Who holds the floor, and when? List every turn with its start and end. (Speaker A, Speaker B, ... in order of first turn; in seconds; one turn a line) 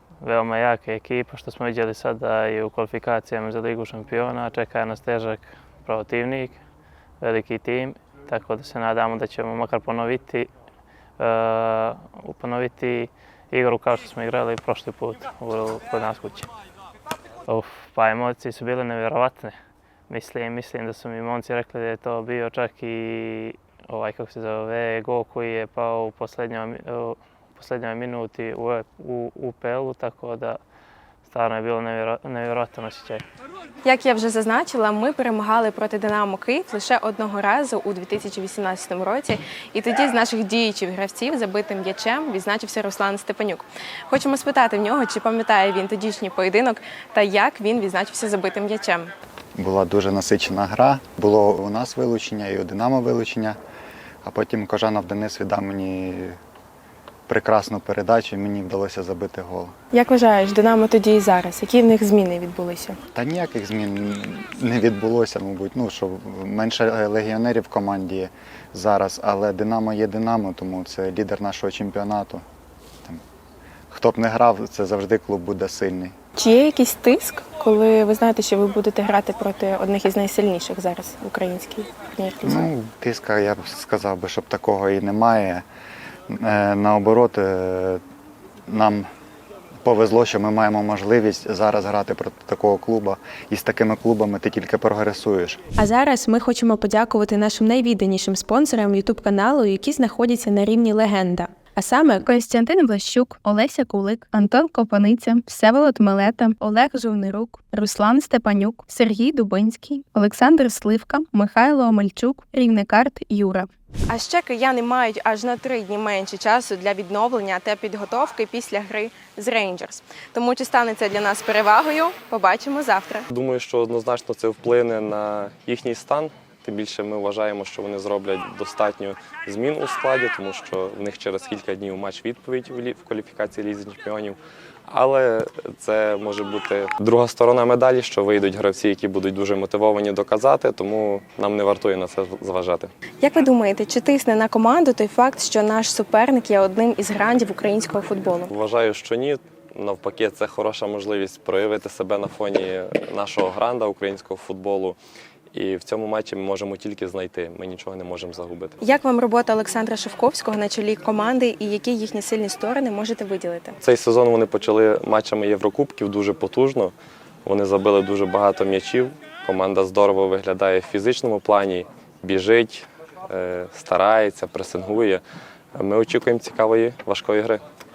Speaker A: 0.2-6.6
Speaker A: 7.2-10.5
Speaker A: 11.2-16.5
Speaker A: 17.5-19.5
Speaker A: 20.1-30.6
Speaker A: 31.3-33.2
Speaker B: 33.8-49.1
Speaker C: 49.5-53.6
Speaker C: 54.2-56.4
Speaker C: 57.3-59.7
Speaker B: 59.9-63.0
Speaker C: 63.1-72.4
Speaker C: 73.9-76.1
Speaker B: 76.3-82.6
Speaker C: 82.4-85.6
Speaker C: 86.3-88.0
Speaker C: 88.7-89.1
Speaker C: 89.8-95.6
Speaker B: 95.8-123.2
Speaker D: 123.3-142.9
Speaker B: 143.2-148.5
Speaker D: 148.5-155.0
Speaker D: 155.5-158.8
Speaker B: 158.8-163.8
Speaker D: 163.8-166.9
Speaker D: 167.4-175.2
Speaker D: 175.8-177.6